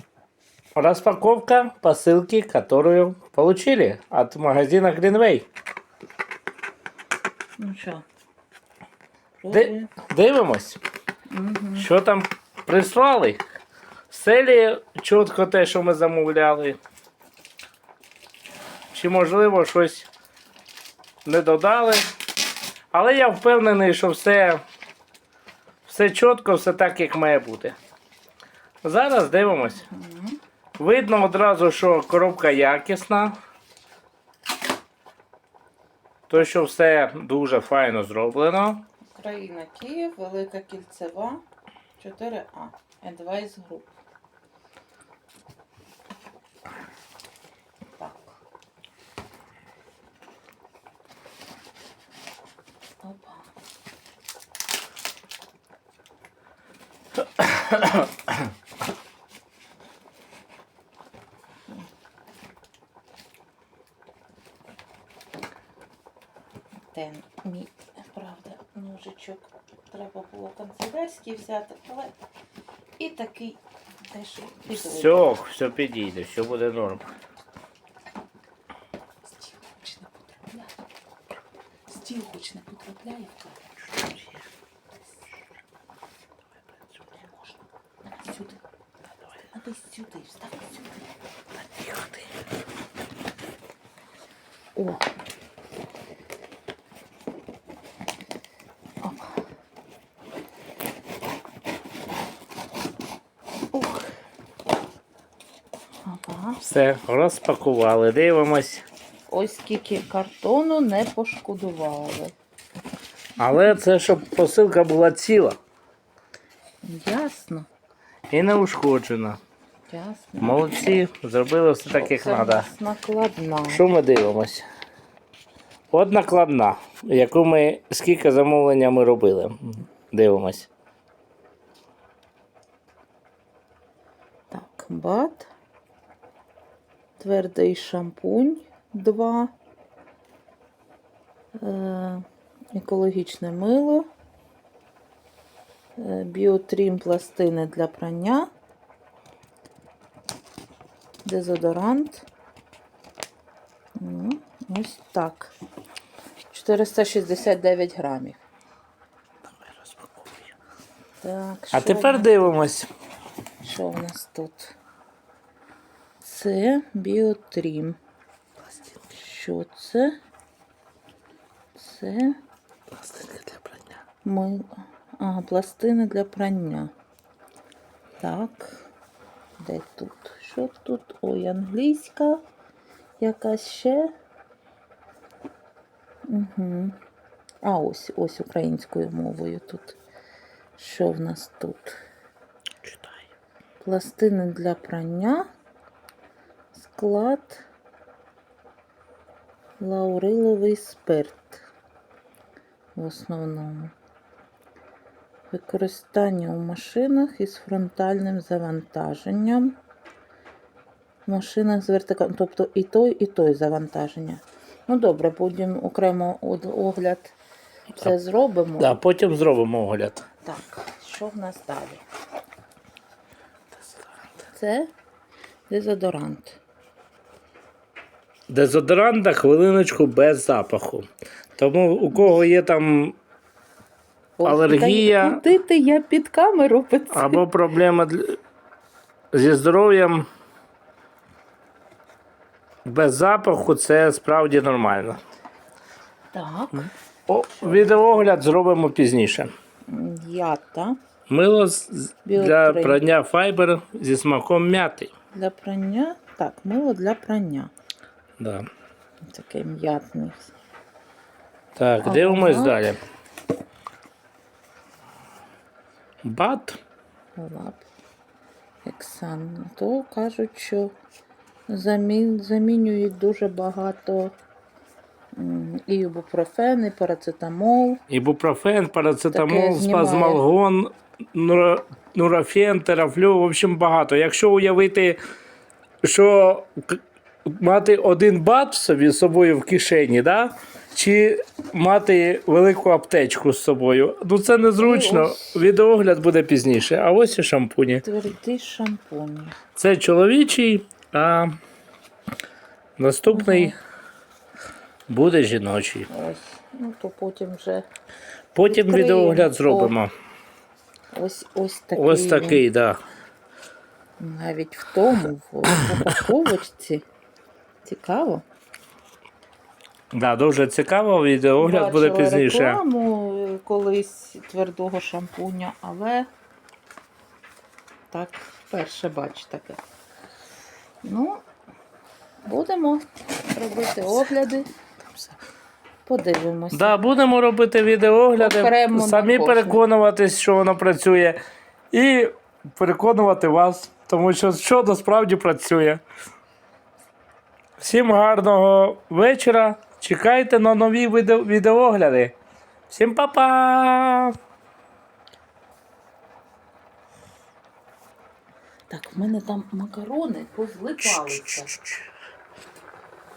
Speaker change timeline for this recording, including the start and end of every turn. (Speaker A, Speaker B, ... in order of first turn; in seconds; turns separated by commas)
Speaker A: 0.7-5.5, Speaker B: 7.6-8.0, Speaker B: 9.4-9.9, Speaker A: 9.5-10.8, Speaker B: 11.3-11.9, Speaker A: 11.8-13.4, Speaker A: 14.1-16.8, Speaker A: 18.9-20.1, Speaker A: 21.2-22.0, Speaker A: 22.9-24.6, Speaker A: 25.8-27.8, Speaker A: 28.8-29.8, Speaker B: 29.8-30.4, Speaker A: 30.8-33.4, Speaker A: 36.3-38.9, Speaker B: 39.1-41.4, Speaker B: 42.0-43.9, Speaker B: 48.0-48.4, Speaker B: 53.0-53.5, Speaker B: 66.9-72.1, Speaker B: 73.0-75.3, Speaker A: 74.8-77.1, Speaker B: 79.2-80.7, Speaker B: 81.9-83.7, Speaker B: 88.2-88.6, Speaker B: 89.5-90.9, Speaker B: 94.8-95.1, Speaker B: 99.0-99.4, Speaker B: 103.7-104.1, Speaker B: 106.0-106.6, Speaker A: 106.6-108.8, Speaker B: 109.3-112.3, Speaker A: 113.4-115.6, Speaker B: 116.8-117.7, Speaker A: 118.3-119.4, Speaker B: 119.9-121.0, Speaker A: 120.4-122.7, Speaker B: 121.8-123.8, Speaker A: 123.7-124.6, Speaker A: 125.9-130.7, Speaker B: 134.5-135.5, Speaker B: 137.2-139.5, Speaker B: 141.5-144.1, Speaker B: 146.0-148.5, Speaker B: 151.2-152.3, Speaker B: 153.9-155.5, Speaker B: 156.5-158.4, Speaker B: 161.2-162.6, Speaker A: 161.7-162.9, Speaker B: 163.6-164.7, Speaker B: 166.2-168.0, Speaker B: 169.1-170.2, Speaker B: 171.8-172.4, Speaker A: 172.9-173.8, Speaker B: 174.2-176.9, Speaker B: 178.2-178.9, Speaker B: 179.6-182.4, Speaker B: 183.2-184.1, Speaker B: 186.3-187.0, Speaker B: 187.6-190.0, Speaker B: 190.8-192.0, Speaker B: 193.8-195.5, Speaker B: 196.7-197.6, Speaker B: 199.8-201.6, Speaker B: 202.9-203.9, Speaker B: 205.5-209.8, Speaker B: 211.2-217.3, Speaker B: 218.0-219.0, Speaker A: 218.8-220.2, Speaker B: 220.4-222.0, Speaker B: 224.5-224.9, Speaker B: 225.7-226.6, Speaker A: 228.5-231.1, Speaker A: 231.6-233.2, Speaker B: 232.1-232.4, Speaker B: 234.4-237.4, Speaker A: 234.4-235.4, Speaker A: 237.1-238.4, Speaker A: 239.3-240.3, Speaker A: 242.8-245.2, Speaker B: 246.3-246.9, Speaker A: 247.3-249.5, Speaker B: 247.5-248.3, Speaker B: 249.9-251.0, Speaker A: 251.3-255.1, Speaker B: 252.2-253.0, Speaker B: 255.3-257.7, Speaker A: 258.4-258.6, Speaker B: 259.2-260.5, Speaker A: 261.8-263.0, Speaker B: 262.0-262.8, Speaker A: 266.2-266.8, Speaker B: 267.4-267.8, Speaker B: 268.8-270.9, Speaker B: 271.7-274.3, Speaker B: 275.3-278.0, Speaker A: 278.1-285.2, Speaker B: 279.3-280.4, Speaker A: 286.0-298.0, Speaker B: 294.8-295.6, Speaker B: 298.0-299.6, Speaker A: 299.8-301.5, Speaker A: 303.0-303.8, Speaker B: 303.3-303.8, Speaker A: 305.1-306.1, Speaker B: 306.1-307.8, Speaker A: 308.5-310.1, Speaker B: 308.6-309.9, Speaker B: 311.1-312.6, Speaker A: 311.9-313.0, Speaker B: 314.2-317.0, Speaker B: 317.8-318.4, Speaker A: 320.1-322.8, Speaker B: 321.6-326.3, Speaker B: 328.1-329.8, Speaker B: 331.0-331.4, Speaker B: 332.4-334.7, Speaker B: 336.1-336.9, Speaker A: 336.7-341.4, Speaker B: 338.4-339.8, Speaker A: 341.9-346.0, Speaker A: 347.8-352.4, Speaker A: 352.9-354.3, Speaker B: 358.9-361.7, Speaker A: 361.0-362.0